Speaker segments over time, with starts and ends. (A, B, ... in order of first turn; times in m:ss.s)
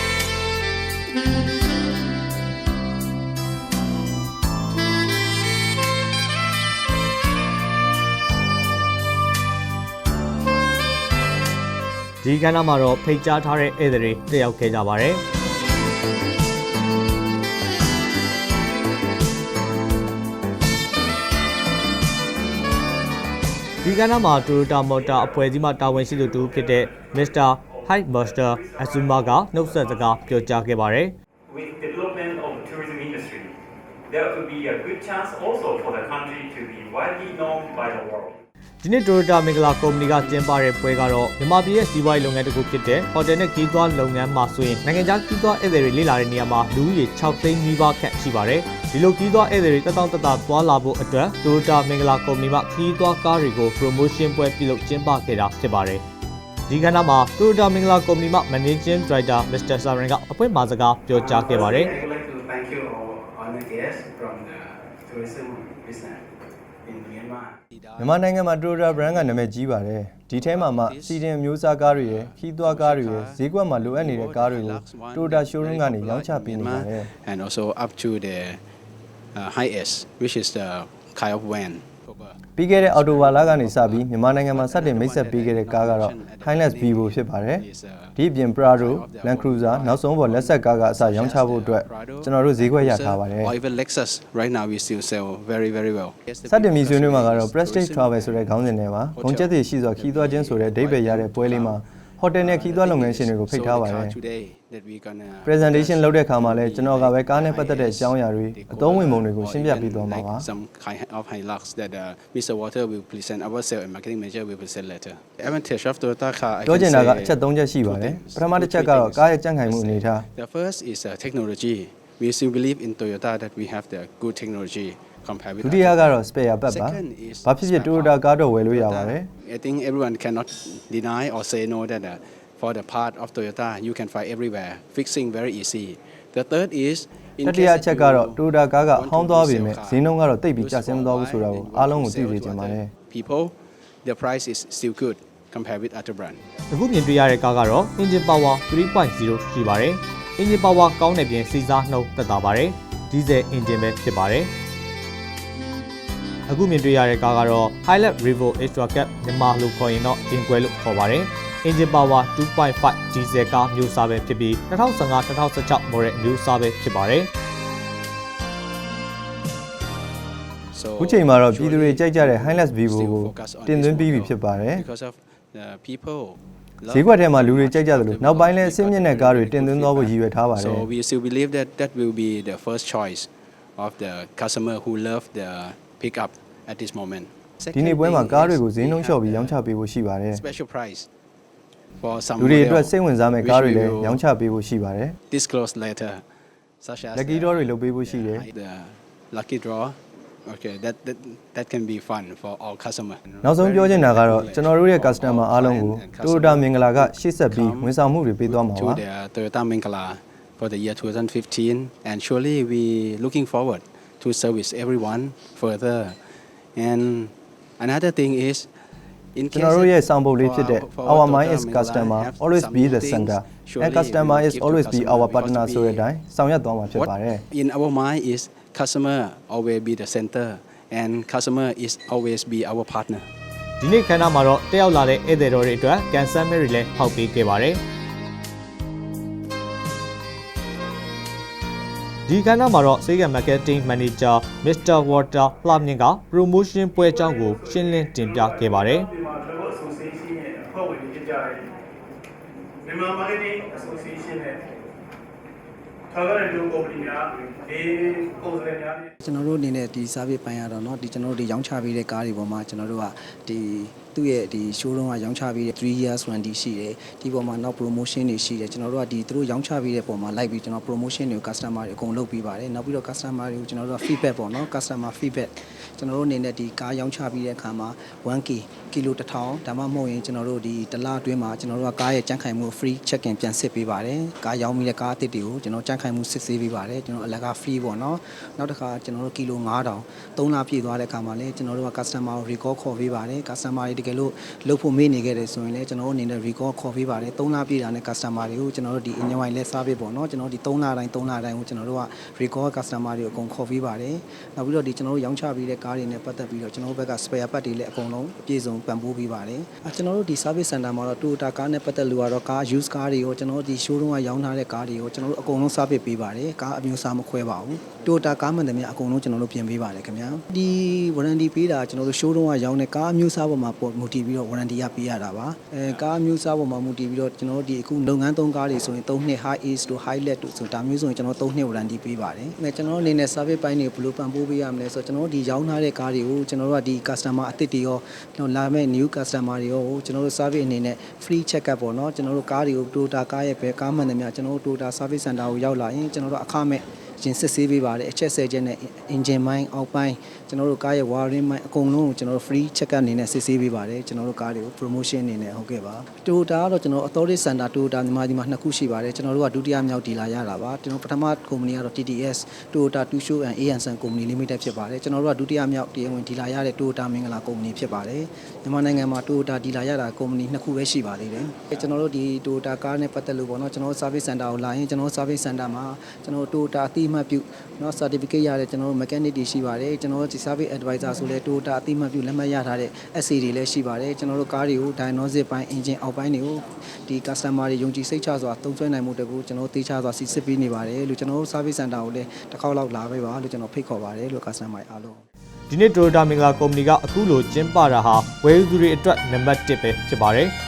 0:12.2-0:15.2 A
0:23.8-0:31.2 A
0:25.1-0:25.4 B
0:26.1-0:30.2 B
0:31.5-0:33.5 B
0:34.1-0:38.4 B
0:38.8-0:56.0 A
0:56.7-1:01.9 A
1:01.1-1:06.3 C
1:06.8-1:08.3 C
1:08.0-1:17.1 D
1:08.9-1:09.4 C
1:10.4-1:11.2 C
1:11.9-1:18.6 C
1:19.4-1:38.6 C
1:22.6-1:33.6 D
1:36.5-1:44.2 D
1:39.1-1:41.8 C
1:42.4-2:23.5 C
1:45.5-1:50.5 D
1:56.6-2:00.3 D
2:05.6-2:09.3 D
2:17.4-2:22.9 D
2:24.0-2:26.4 C
2:26.7-2:34.5 A
2:36.5-2:47.3 A
2:50.7-3:09.6 C
2:51.0-2:54.8 D
2:56.9-3:00.9 D
3:07.7-3:10.4 D
3:10.3-3:11.1 C
3:12.0-3:14.2 C
3:12.4-3:15.2 D
3:15.3-3:16.2 C
3:16.8-3:36.2 C
3:17.2-3:18.5 D
3:23.4-3:29.0 D
3:36.8-3:38.7 C
3:39.4-3:46.0 C
3:39.5-3:47.4 D
3:46.9-3:53.3 C
3:53.8-3:57.8 A
4:02.3-4:09.1 A
4:08.2-4:11.7 B
4:12.8-4:14.6 B
4:16.1-4:19.0 B
4:19.2-6:35.2 E
6:35.7-6:40.5 A